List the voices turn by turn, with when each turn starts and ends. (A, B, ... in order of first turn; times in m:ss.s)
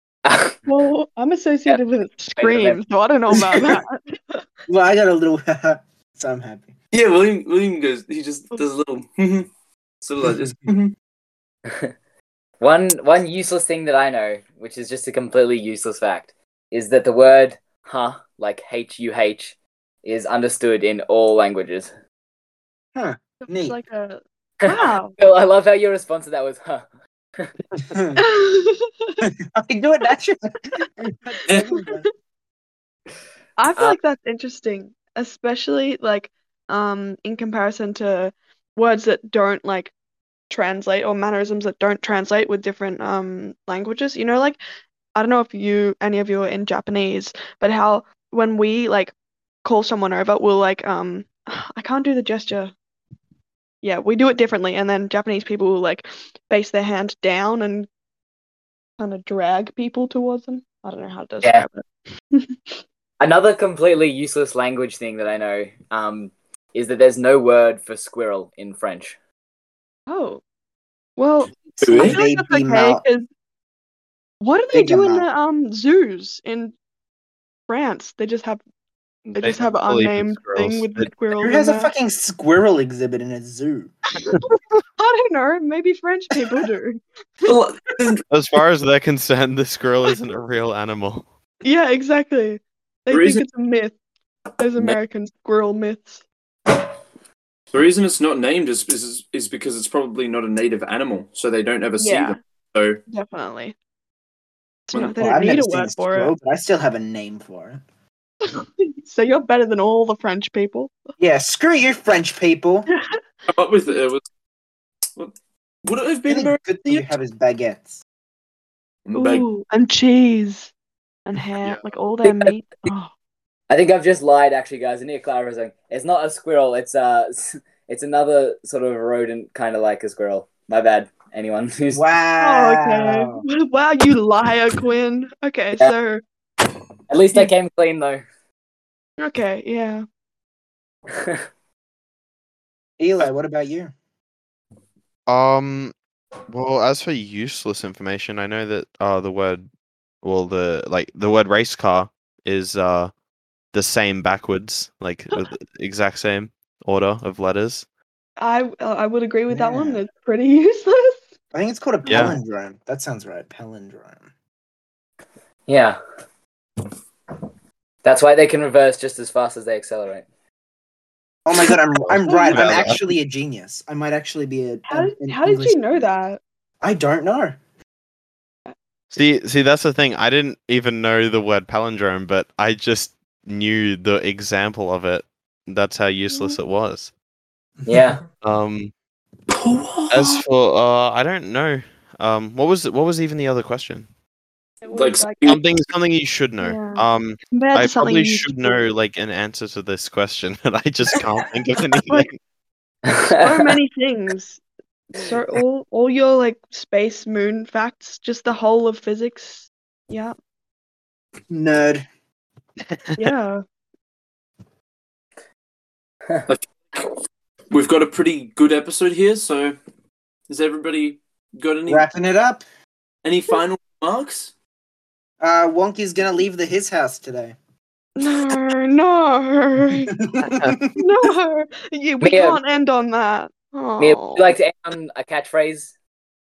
0:00.2-0:00.6 A
0:00.6-0:04.4 B
0:02.4-0:02.8 A
0:04.7-0:06.7 C
0:06.9-0:09.5 D
0:10.0-0:10.9 D
0:11.7-0:11.9 A
0:12.6-0:21.9 A
0:22.9-0:23.8 C
0:23.4-0:25.1 B
0:24.6-0:26.8 A
0:27.8-0:28.2 C
0:28.2-0:29.2 B
0:29.2-0:32.1 C
0:31.5-0:32.0 B
0:33.6-0:39.9 B
0:40.5-0:44.6 B
0:45.1-0:49.1 B
0:49.6-0:52.7 B
0:53.8-0:57.9 B
0:59.0-1:02.8 B
1:01.4-1:01.7 A
1:03.2-1:09.2 A
1:10.1-1:10.4 B
1:11.2-1:13.2 B
1:11.8-1:12.2 D
1:11.8-1:13.0 C
1:14.4-1:16.7 B
1:14.7-1:15.3 C
1:17.7-1:18.6 B
1:19.2-1:21.1 E
1:19.4-1:21.9 B
1:21.4-1:23.9 C
1:24.2-1:27.5 B
1:27.4-1:28.2 D
1:28.3-1:31.2 E
1:31.6-1:34.0 B
1:33.1-1:33.4 D
1:34.6-1:36.2 B
1:37.7-1:43.0 D
1:42.0-1:42.3 B
1:43.1-1:43.7 B
1:44.9-1:46.3 B
1:45.2-1:47.8 C
1:48.4-1:50.9 B
1:51.2-1:52.9 C
1:52.9-1:53.2 B
1:53.5-1:54.2 D
1:55.8-1:57.1 D
1:56.3-1:58.0 C
1:59.0-1:59.5 D
1:59.1-2:00.7 B
2:01.2-2:03.1 B
2:02.2-2:02.5 A
2:03.7-2:12.0 A
2:11.9-2:13.4 C
2:12.4-2:16.2 B
2:17.1-2:18.2 A
2:19.2-2:20.0 B
2:21.1-2:21.4 A
2:23.0-2:23.9 C
2:25.3-2:25.9 E
2:26.5-2:29.7 E
2:30.2-2:33.1 E
2:33.7-2:37.8 E
2:38.4-2:41.2 B
2:39.5-2:40.0 C
2:41.5-2:44.3 C
2:42.0-2:42.4 E
2:45.7-2:46.0 A
2:48.0-2:50.2 A
2:51.4-2:56.0 C
2:52.2-2:52.8 B
2:52.5-2:53.1 E
2:54.9-2:56.4 B
2:56.8-2:57.6 C
2:59.1-3:07.1 E
3:06.3-3:06.6 B
3:07.9-3:08.2 A
3:08.4-3:08.9 E
3:09.5-3:10.4 D
3:10.1-3:14.1 E
3:14.8-3:15.6 B
3:14.9-3:15.6 D
3:15.4-3:22.4 E
3:16.6-3:18.8 B
3:23.0-3:23.7 A
3:23.2-3:24.6 B
3:25.1-3:30.3 B
3:31.5-3:32.0 C
3:33.0-3:33.3 E
3:33.2-3:33.6 B
3:36.5-3:37.0 D
3:37.7-3:39.8 D
3:40.5-3:42.1 D
3:41.9-3:42.6 C
3:43.2-3:44.5 D
3:45.4-3:47.5 C
3:48.2-3:50.2 B
3:50.1-3:51.1 C
3:50.5-3:50.8 E
3:50.8-3:54.5 B
3:52.2-3:52.6 A
3:54.0-3:55.9 A